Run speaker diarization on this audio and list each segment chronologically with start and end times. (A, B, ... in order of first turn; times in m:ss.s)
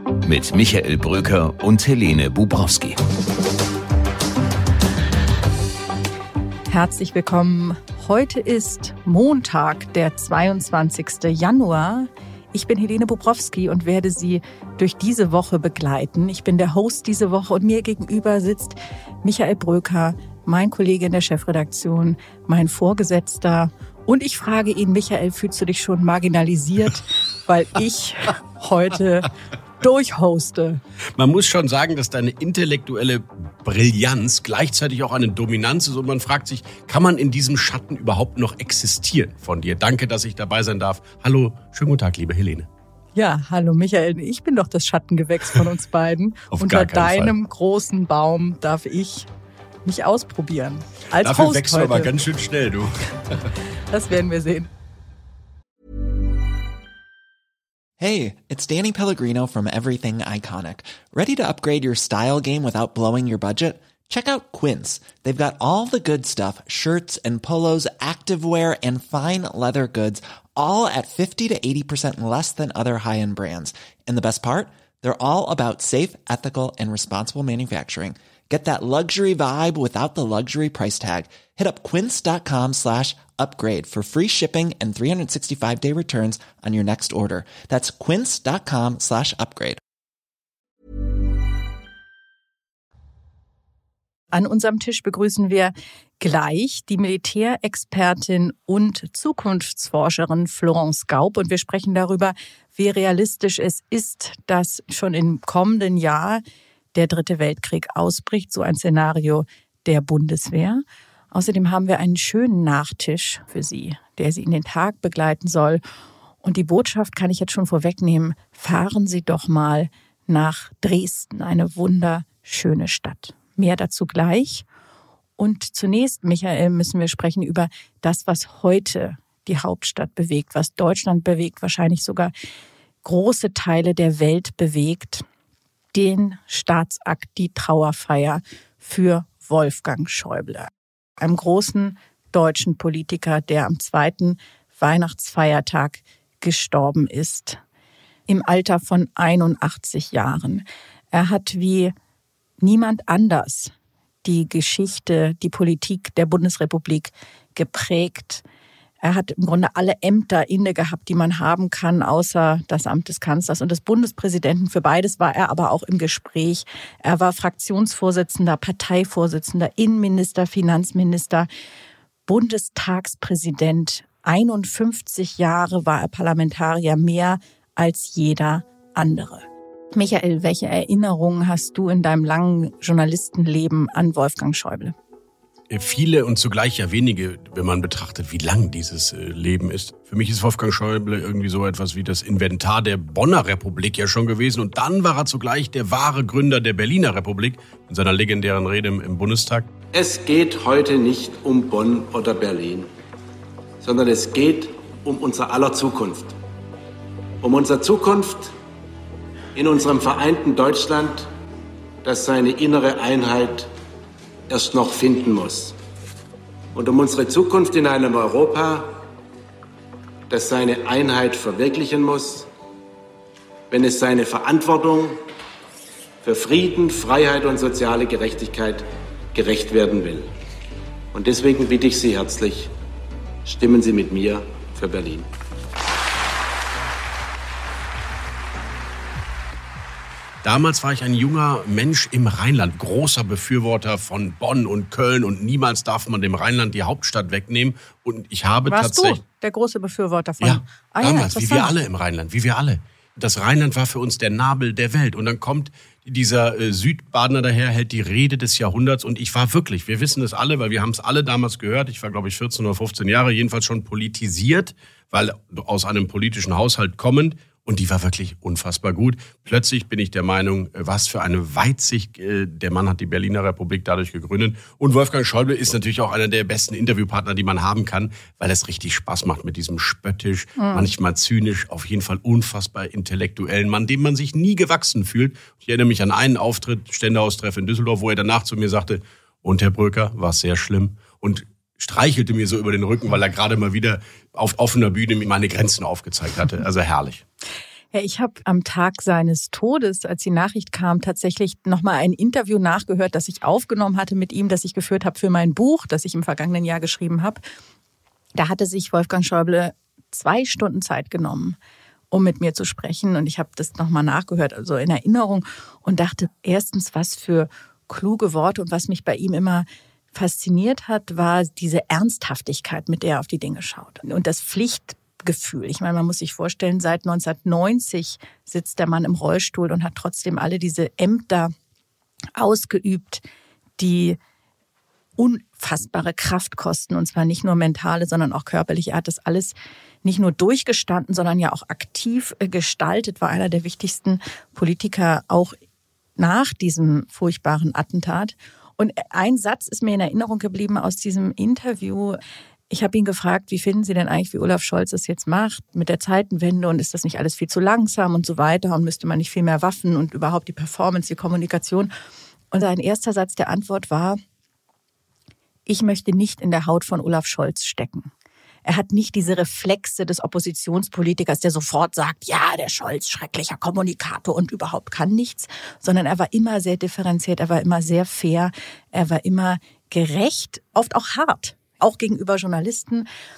0:00.2-0:03.0 A
0:06.7-0:30.8 B
0:31.2-0:42.7 C
0:43.1-0:49.3 B
0:46.5-0:47.3 C
0:49.8-0:52.1 B
0:51.2-0:53.4 C
0:53.9-0:54.7 B
0:58.0-1:29.8 D
1:34.3-1:46.4 B
1:46.9-1:55.8 B
1:56.4-2:04.6 B
2:05.4-2:12.3 B
2:13.0-2:15.2 B
2:15.9-2:27.6 B
2:28.3-2:31.9 B
2:32.6-2:33.7 B
2:34.2-2:38.4 B
2:39.0-2:51.5 B
2:52.3-3:04.9 B
3:05.7-3:19.7 C
3:19.9-3:22.9 E
3:23.8-3:26.3 E
3:27.4-3:28.5 E
3:29.5-3:31.3 E
3:32.0-3:33.7 E
3:34.5-3:35.8 E
3:36.7-3:38.9 E
3:40.3-3:42.5 E
3:43.7-3:45.2 E
3:46.2-3:50.3 E
3:51.1-3:52.7 E
3:53.4-3:55.3 E
4:00.4-4:09.2 C
4:08.6-4:11.7 B
4:10.4-4:57.2 C
4:40.6-4:40.9 B
4:57.9-5:07.4 B
5:08.3-5:11.6 B
5:12.1-5:31.5 B
5:32.4-5:33.2 B
5:33.8-5:34.2 B
5:35.2-5:45.6 B
5:46.2-6:01.9 B
6:02.5-6:04.2 B
6:05.6-6:08.1 B
6:08.6-6:23.0 B